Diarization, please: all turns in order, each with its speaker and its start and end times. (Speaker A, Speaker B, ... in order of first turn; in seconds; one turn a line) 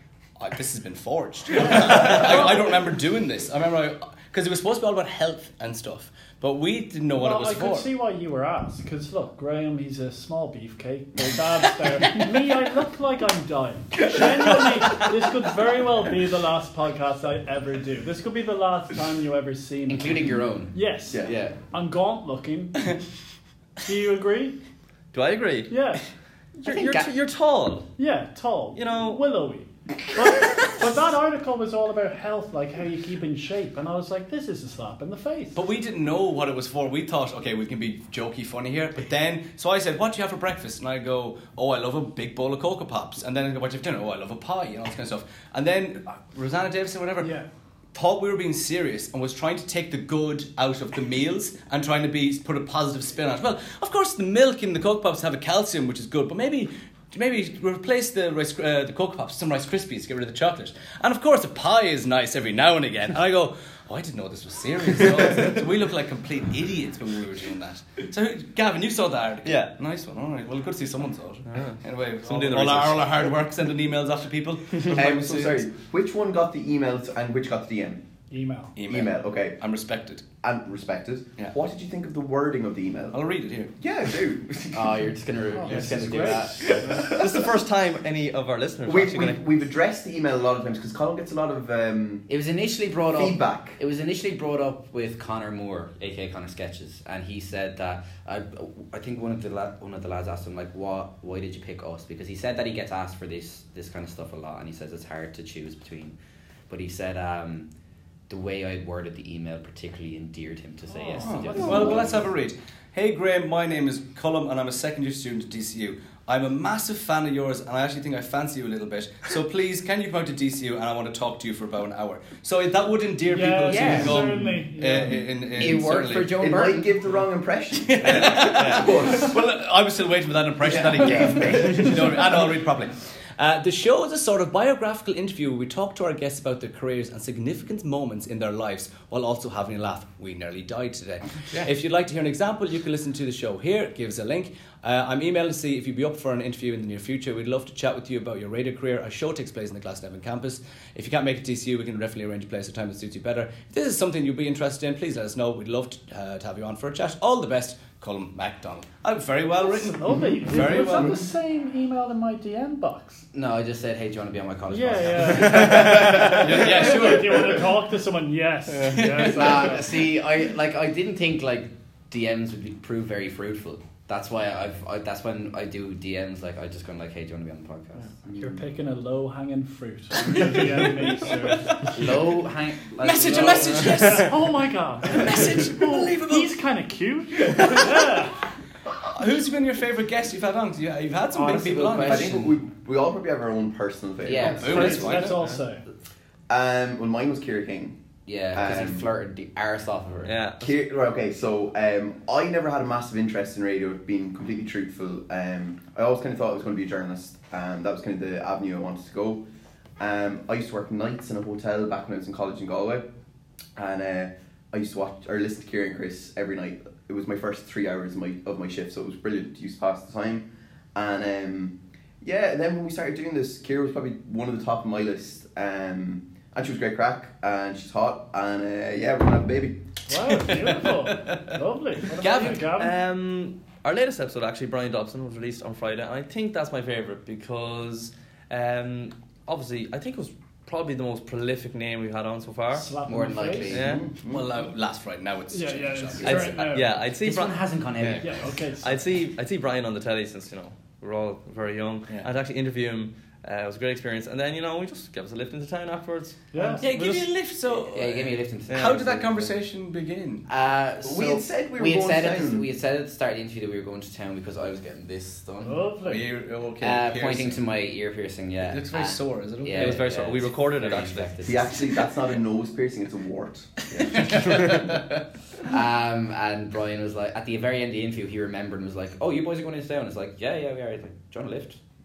Speaker A: 0.4-7.9
Speaker B: 1.6-2.7
Speaker B: 7.1-23.0
Speaker C: 12.0-12.3
Speaker D: 14.2-14.7
Speaker C: 19.9-21.6
Speaker B: 23.8-24.6
Speaker E: 25.1-25.7
Speaker B: 25.7-26.1
Speaker E: 26.6-27.9
Speaker C: 26.6-27.1
Speaker B: 28.0-35.6
Speaker E: 28.7-29.2
Speaker A: 35.5-47.4
Speaker B: 47.2-47.5
Speaker A: 47.9-75.6
Speaker E: 69.4-69.7
Speaker E: 71.5-73.2
Speaker E: 74.7-75.0
Speaker D: 74.9-78.0
Speaker B: 78.3-78.7
Speaker A: 78.8-80.2
Speaker D: 78.9-79.6
Speaker D: 80.4-83.2
Speaker A: 83.1-83.7
Speaker D: 83.8-85.1
Speaker C: 84.7-86.9
Speaker B: 85.5-86.9
Speaker A: 85.7-86.2
Speaker D: 86.6-87.4
Speaker E: 86.9-89.4
Speaker D: 88.8-92.2
Speaker C: 92.3-106.1
Speaker D: 93.1-93.8
Speaker C: 106.7-107.7
Speaker C: 108.3-112.3
Speaker B: 110.9-112.3
Speaker A: 111.2-126.4
Speaker D: 111.6-112.1
Speaker B: 123.2-125.3
Speaker C: 123.7-124.3
Speaker C: 125.5-126.9
Speaker D: 125.6-129.4
Speaker A: 127.8-161.2
Speaker E: 128.5-128.9
Speaker D: 130.6-132.5
Speaker B: 159.6-163.3
Speaker D: 160.1-161.1
Speaker C: 163.3-166.7
Speaker B: 164.7-170.1
Speaker A: 165.6-167.7
Speaker A: 168.8-169.8
Speaker C: 169.3-178.2
Speaker B: 178.3-182.1
Speaker A: 180.2-181.8
Speaker C: 180.3-180.6
Speaker C: 181.9-184.1
Speaker A: 183.0-184.4
Speaker E: 183.8-184.1
Speaker B: 183.8-188.4
Speaker A: 185.0-186.5
Speaker A: 187.4-188.3
Speaker A: 189.0-192.4
Speaker C: 191.3-192.6
Speaker D: 191.9-195.1
Speaker C: 194.2-195.2
Speaker B: 194.4-195.8
Speaker A: 194.5-195.5
Speaker E: 195.2-195.6
Speaker D: 196.5-198.0
Speaker C: 198.2-200.3
Speaker D: 198.5-199.1
Speaker E: 200.2-200.7
Speaker D: 200.6-209.4
Speaker D: 210.0-213.1
Speaker D: 213.8-229.8
Speaker B: 230.1-233.0
Speaker A: 230.2-231.6
Speaker A: 232.2-232.6
Speaker E: 232.6-242.9
Speaker B: 242.7-243.8
Speaker C: 243.1-244.0
Speaker E: 243.7-244.0
Speaker D: 243.7-244.5
Speaker A: 244.2-246.7
Speaker B: 245.5-247.0
Speaker C: 246.2-246.5
Speaker E: 246.3-248.2
Speaker C: 247.1-248.5
Speaker A: 248.0-248.2
Speaker B: 248.2-249.1
Speaker E: 248.8-257.2
Speaker B: 256.5-256.9
Speaker A: 256.8-260.5
Speaker C: 257.8-259.5
Speaker E: 258.7-259.0
Speaker C: 260.5-265.9
Speaker D: 261.0-262.7
Speaker B: 265.6-266.3
Speaker A: 266.0-267.6
Speaker C: 266.8-271.8
Speaker A: 268.6-270.0
Speaker E: 269.8-271.6
Speaker D: 271.4-274.8
Speaker A: 273.9-275.2
Speaker C: 275.6-281.8